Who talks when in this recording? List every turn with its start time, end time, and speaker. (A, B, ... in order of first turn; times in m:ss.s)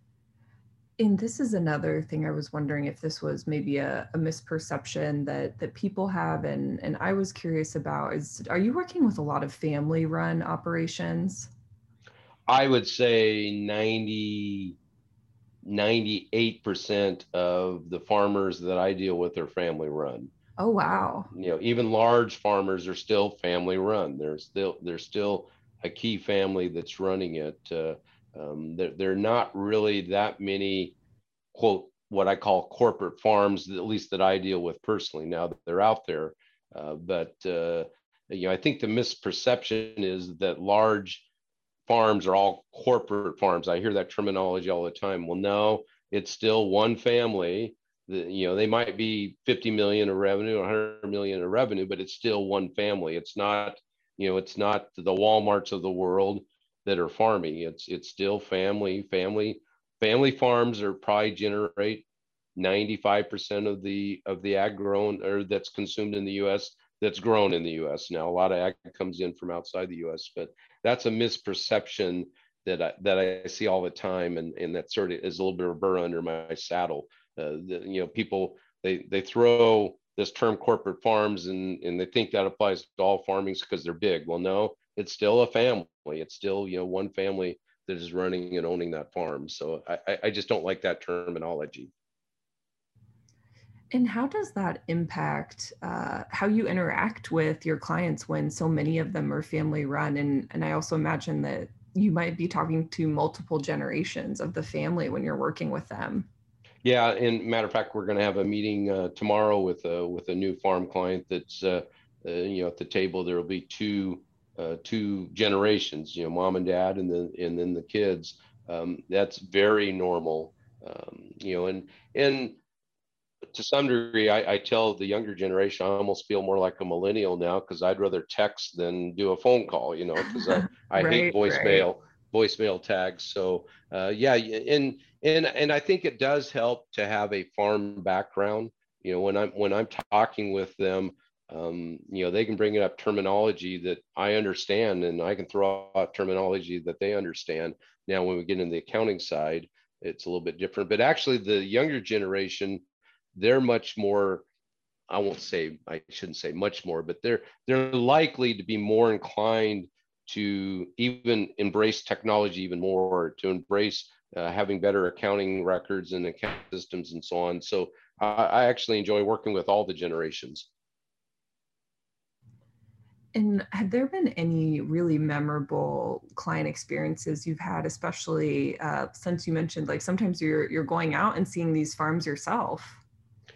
0:01.0-0:11.5 A
0:12.5-0:14.8 B
0:15.6-0:20.3 B
0:20.6-0:21.3 A
0:21.3-0:31.0 B
0:31.5-0:41.2 B
0:41.9-1:31.9 B
1:33.9-1:46.3 A
1:46.8-2:02.6 B
2:03.5-2:32.8 B
2:10.3-2:11.8 A
2:33.3-2:34.4 B
2:35.1-2:50.7 B
2:53.3-3:03.0 A